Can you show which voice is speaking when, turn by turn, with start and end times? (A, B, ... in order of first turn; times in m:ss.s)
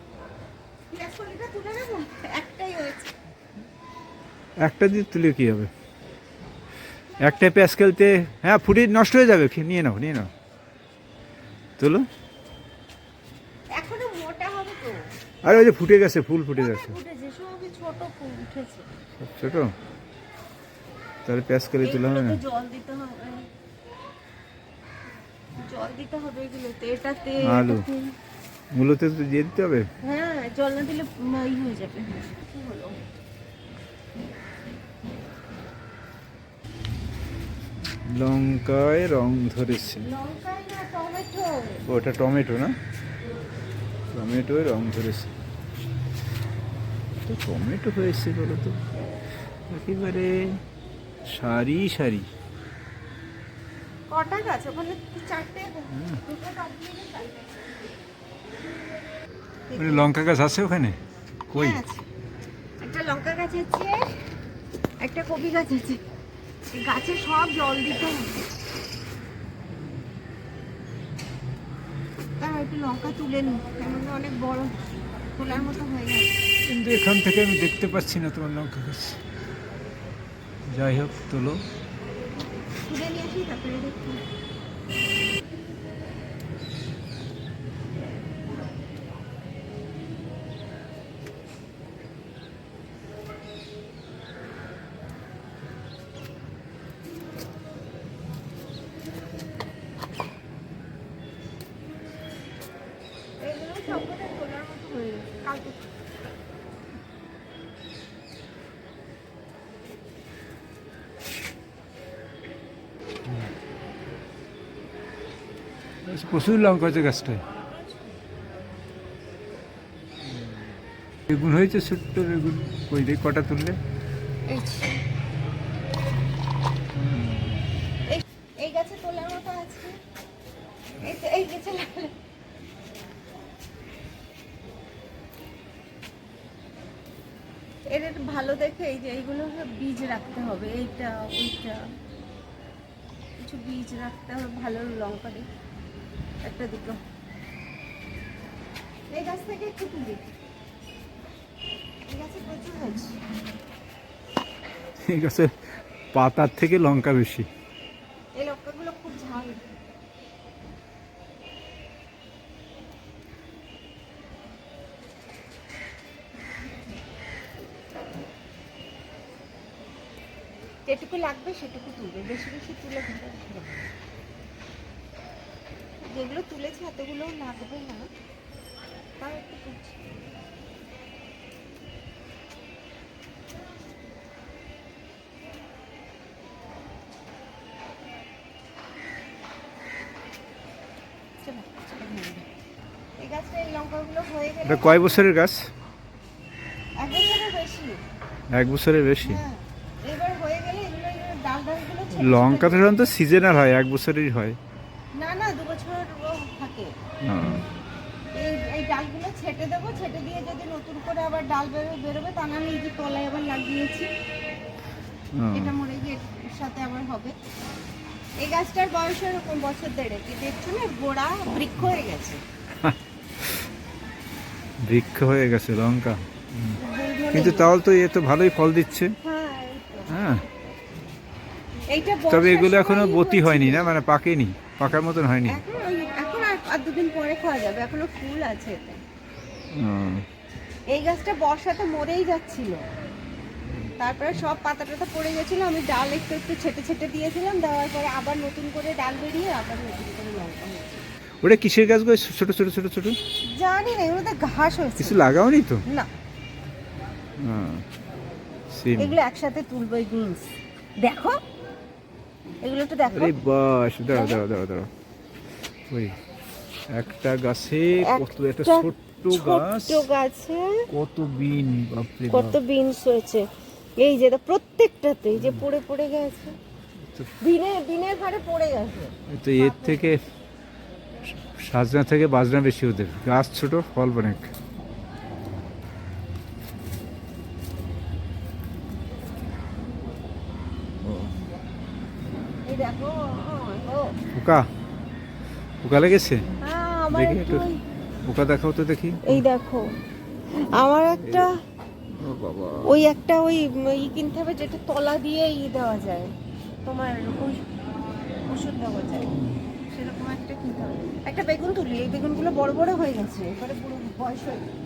0:00.9-0:03.1 A
0:04.6-0:05.7 B
0:07.2-0:10.3 B
0:11.8-0:12.0 B
0:13.7-0:15.0 A
0:15.4-0:17.0 B
0:16.6-0:18.9 A
0:19.2-0:19.7 B
0:21.2-0:22.4 B
0:21.8-0:23.5 A
0:25.6-0:28.1 A
0:27.4-0:27.8 B
0:28.7-0:29.9 B
0:30.0-0:33.0 A
0:38.1-0:40.1 B
0:40.0-0:41.8 A
0:41.8-0:42.8 B
0:44.1-0:45.3 B
0:47.2-0:48.8 B
0:49.7-0:50.6 B
0:51.3-0:52.3 B
0:54.1-0:57.6 A
0:59.7-1:00.1 A
0:59.8-1:01.0 B
1:01.5-1:02.1 A
1:01.5-1:01.8 B
1:02.8-1:04.3 A
1:05.0-1:06.0 A
1:06.7-1:08.4 A
1:12.4-1:14.8 A
1:15.3-1:16.3 A
1:16.6-1:19.2 B
1:20.7-1:21.6 B
1:22.8-1:24.2 A
1:43.4-1:45.8 A
1:56.0-1:57.4 B
2:01.3-2:03.8 B
2:04.5-2:05.0 A
2:06.9-2:07.6 B
2:08.1-2:10.0 A
2:11.0-2:12.1 A
2:17.9-2:21.8 A
2:23.4-2:25.4 A
2:26.4-2:27.0 A
2:29.1-2:30.2 A
2:32.1-2:33.2 A
2:35.0-2:35.5 B
2:36.1-2:37.5 B
2:38.4-2:39.6 A
2:50.8-2:53.9 A
2:56.0-2:58.1 A
2:59.2-3:00.0 A
3:11.4-3:12.4 A
3:13.2-3:15.2 A
3:14.6-3:15.7 B
3:17.0-3:18.0 A
3:18.5-3:19.4 B
3:19.2-3:23.0 A
3:22.1-3:24.6 B
3:25.1-3:26.9 A
3:27.2-3:27.6 B
3:28.3-3:34.1 A
3:35.3-3:35.7 B
3:35.5-3:37.3 A
3:38.4-3:42.4 A
3:44.8-3:46.8 B
3:46.8-3:47.7 A
3:47.3-3:49.1 B
3:49.2-3:50.2 A
3:50.1-3:50.4 B
3:51.9-3:53.9 A
3:52.3-3:55.6 B
3:55.4-3:59.0 A
3:59.7-4:00.2 B
4:00.9-4:02.8 A
4:04.0-4:11.0 A
4:11.4-4:13.2 B
4:13.5-4:15.2 A
4:15.0-4:15.8 B
4:17.4-4:17.8 B
4:18.7-4:19.2 B
4:19.0-4:21.4 A
4:22.6-4:23.3 A
4:23.1-4:24.9 B
4:24.1-4:24.4 A
4:25.9-4:26.1 B
4:26.9-4:30.0 B
4:28.0-4:30.9 A
4:30.9-4:32.6 B
4:32.3-4:36.6 A
4:35.4-4:35.6 B
4:37.4-4:40.0 A
4:39.3-4:40.2 B
4:41.4-4:44.5 B
4:51.0-4:51.3 B
4:52.6-4:54.1 A
4:54.3-4:54.6 B
4:55.8-4:56.4 B
4:56.6-4:57.8 A
4:57.1-4:57.6 B
4:58.2-4:59.4 B
4:59.2-4:59.9 A
5:00.7-5:01.6 A
5:02.1-5:02.9 B
5:02.8-5:07.6 A
5:08.5-5:09.3 A
5:09.9-5:14.7 A